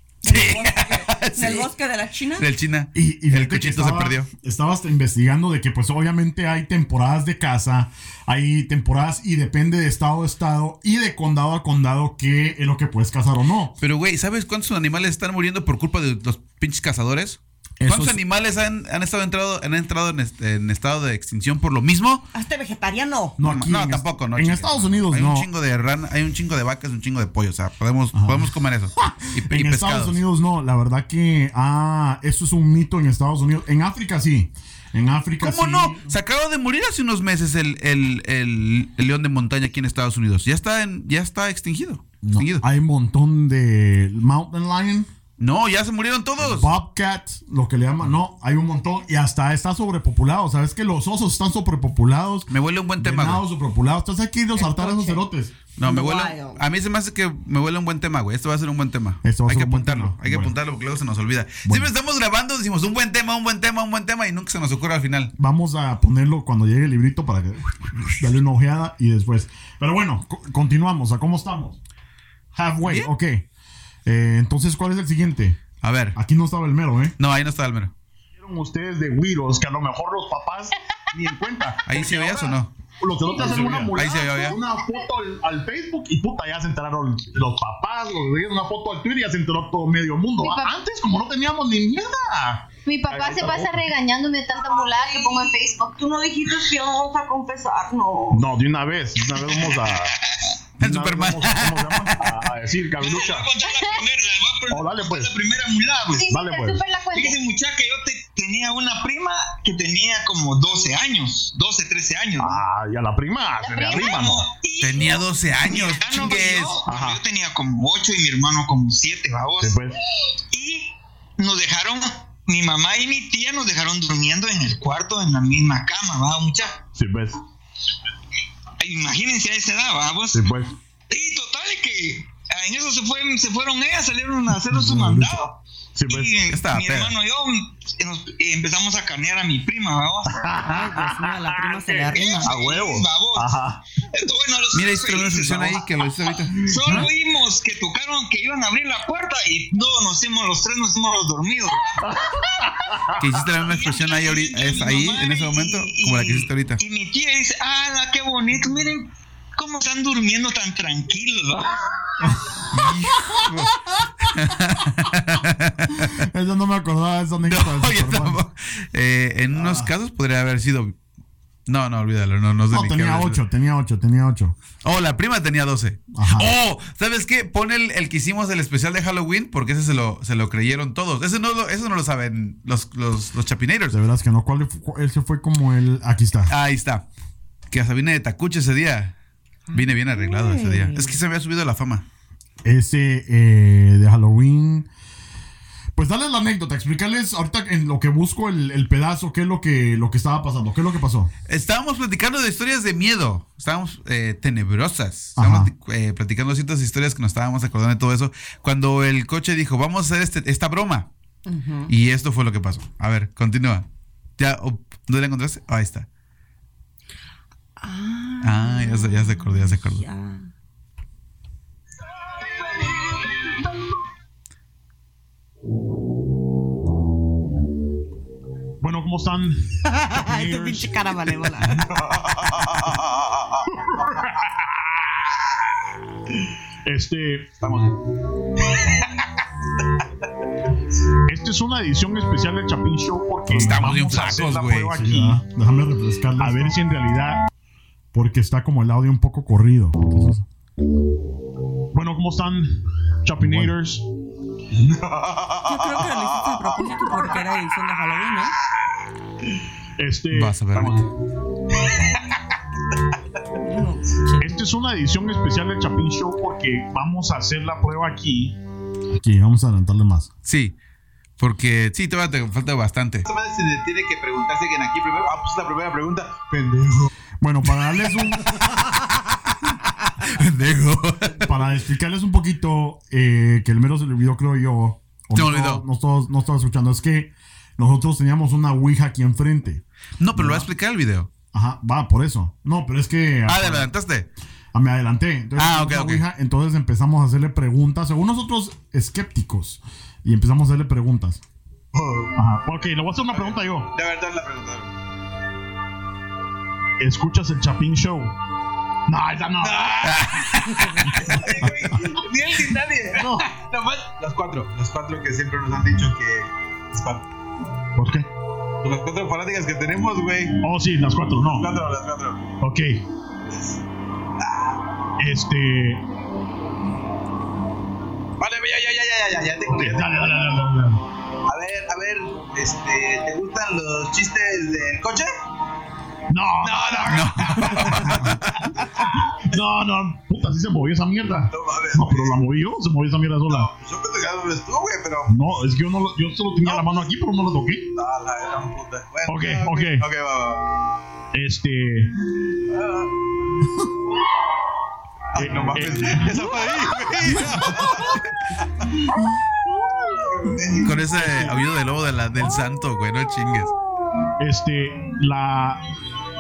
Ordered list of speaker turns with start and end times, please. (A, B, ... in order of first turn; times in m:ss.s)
0:00.2-0:02.5 A
0:00.2-0:01.7 B
0:02.4-0:04.3 B
0:02.9-0:13.8 C
0:13.8-0:22.2 B
0:17.8-0:18.2 C
0:22.3-0:23.4 A
0:23.4-0:25.5 C
0:23.4-0:30.2 B
0:28.1-0:36.1 C
0:35.4-0:42.6 B
0:42.2-0:45.1 C
0:45.4-0:46.7 B
0:46.4-0:55.5 C
0:52.5-0:53.4 B
0:54.5-0:55.2 A
0:55.8-1:05.3 B
0:55.8-0:56.6 A
0:59.2-1:00.5 C
1:01.6-1:01.9 C
1:05.4-1:11.8 C
1:12.5-1:13.4 C
1:12.8-1:13.1 B
1:14.0-1:15.6 C
1:15.8-1:16.2 B
1:16.1-1:17.1 C
1:17.2-1:17.9 B
1:18.4-1:33.8 D
1:21.8-1:22.7 B
1:23.4-1:23.9 C
1:23.5-1:24.6 B
1:23.6-1:24.8 E
1:30.4-1:30.7 E
1:32.8-1:35.9 E
1:34.6-1:38.4 F
1:38.3-1:40.1 D
1:40.8-1:42.4 B
1:40.8-1:43.5 D
1:40.8-1:41.1 C
1:43.0-1:46.4 G
1:43.6-1:44.0 E
1:44.7-1:45.3 D
1:46.1-1:47.4 E
1:46.3-1:46.8 D
1:47.1-1:52.6 G
1:52.4-1:54.5 D
1:53.6-1:54.3 E
1:53.9-1:59.8 G
1:54.8-1:56.8 B
1:56.8-1:57.2 D
1:59.6-2:00.0 D
2:00.5-2:06.8 G
2:06.9-2:07.4 D
2:08.8-2:10.5 G
2:10.3-2:10.7 D
2:11.1-2:20.5 G
2:14.7-2:15.3 D
2:15.9-2:16.3 D
2:16.5-2:17.1 B
2:20.3-2:23.8 D
2:20.6-2:22.5 A
2:22.1-2:23.6 G
2:24.1-2:25.9 G
2:24.7-2:26.7 B
2:26.6-2:32.2 G
2:26.7-2:27.1 D
2:32.0-2:33.2 D
2:33.2-2:36.8 B
2:33.5-2:41.8 G
2:42.7-2:46.2 B
2:46.1-2:48.4 C
2:47.4-2:51.0 B
2:49.5-2:49.9 C
2:51.7-2:53.4 B
2:52.7-2:54.6 C
2:54.8-3:04.0 B
2:56.1-2:56.5 C
3:03.9-3:06.5 C
3:06.5-3:07.0 B
3:07.7-3:09.1 B
3:09.7-3:11.2 A
3:09.7-3:12.0 B
3:12.6-3:14.9 C
3:15.9-3:21.3 C
3:21.5-3:31.1 B
3:25.4-3:25.7 C
3:31.5-3:31.9 A
3:31.9-3:33.9 B
3:34.4-3:36.1 B
3:37.8-3:40.5 A
3:38.4-3:40.0 B
3:48.8-3:51.1 D
3:49.9-3:51.8 A
3:52.6-3:53.4 H
3:56.8-3:57.5 D
3:57.6-3:58.0 H
4:01.3-4:05.4 D
4:03.5-4:05.0 B
4:04.9-4:06.8 C
4:06.4-4:07.5 D
4:08.1-4:10.4 C
4:11.9-4:14.0 D
4:13.4-4:13.7 C
4:15.6-4:18.5 A
4:20.0-4:21.1 D
4:20.3-4:21.0 B
4:23.6-4:24.6 A
4:24.4-4:28.6 D
4:29.1-4:30.3 C
4:30.4-4:30.7 B
4:31.4-4:33.2 B
4:33.2-4:37.1 H
4:37.4-4:38.4 C
4:40.2-4:41.5 B
4:41.4-4:49.8 C
4:45.3-4:45.8 B
4:50.2-4:51.3 B
4:50.4-4:50.7 C
4:51.5-4:53.9 C
4:53.5-4:54.3 B
4:54.7-5:01.4 C
4:55.6-4:56.2 B
5:01.9-5:02.3 H
5:02.4-5:03.9 D
5:03.3-5:04.9 H
5:07.0-5:08.3 D
5:09.1-5:10.1 D
5:09.6-5:10.3 H
5:10.0-5:10.8 B
5:11.2-5:17.2 H
5:18.0-5:18.3 D
5:18.8-5:20.5 H
5:20.6-5:21.7 D
5:21.5-5:22.5 H
5:22.6-5:23.0 D
5:23.5-5:23.8 H
5:24.4-5:24.8 H
5:25.2-5:26.0 D
5:28.4-5:30.6 H
5:29.7-5:31.0 D
5:31.5-5:35.3 H
5:36.3-5:38.3 D
5:36.6-5:37.8 H
5:37.1-5:38.4 B
5:39.3-5:43.7 D
5:41.5-5:42.4 H
5:43.5-5:45.3 H
5:45.3-5:47.9 D
5:46.6-5:47.0 H
5:47.9-5:50.6 H
5:49.2-5:50.0 D
5:51.3-5:52.1 D
5:52.7-5:53.1 H
5:55.3-5:58.2 H
5:55.4-5:56.3 D
6:00.4-6:00.9 H
6:00.8-6:03.7 B
6:01.1-6:01.4 D
6:04.4-6:05.8 D